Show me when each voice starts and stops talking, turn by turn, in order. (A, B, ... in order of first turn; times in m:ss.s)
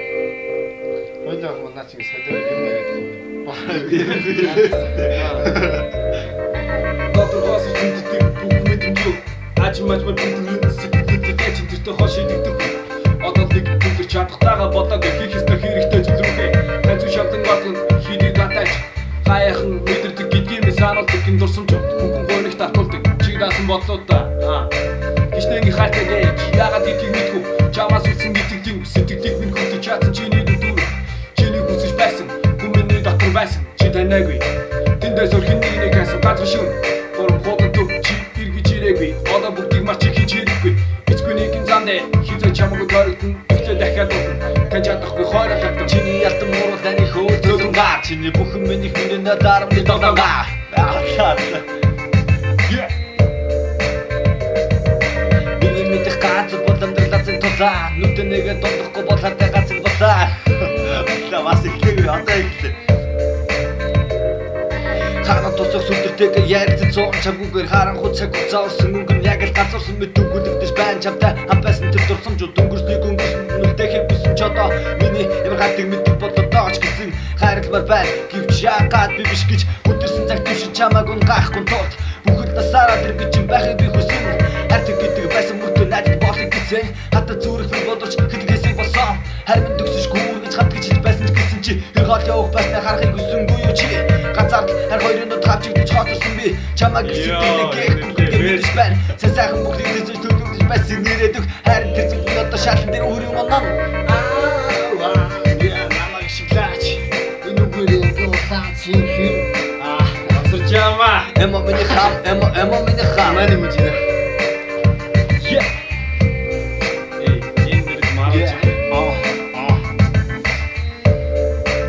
0:01.2-0:05.6 A
0:03.6-0:05.3 B
0:04.0-0:04.6 C
0:05.1-0:05.5 C
0:07.1-0:24.7 C
0:25.3-0:34.5 C
0:35.0-0:46.0 C
0:45.8-0:51.6 B
0:47.3-0:47.9 C
0:49.7-0:50.4 C
0:52.7-0:52.9 C
0:55.6-1:02.8 B
1:05.2-1:43.8 B
1:37.0-1:39.0 C
1:44.0-1:50.4 A
1:50.3-1:51.3 C
1:51.3-1:53.6 B
1:53.3-1:53.8 C
1:53.5-1:53.9 A
1:55.4-1:55.7 C
1:57.2-1:58.8 C
1:58.3-1:59.8 A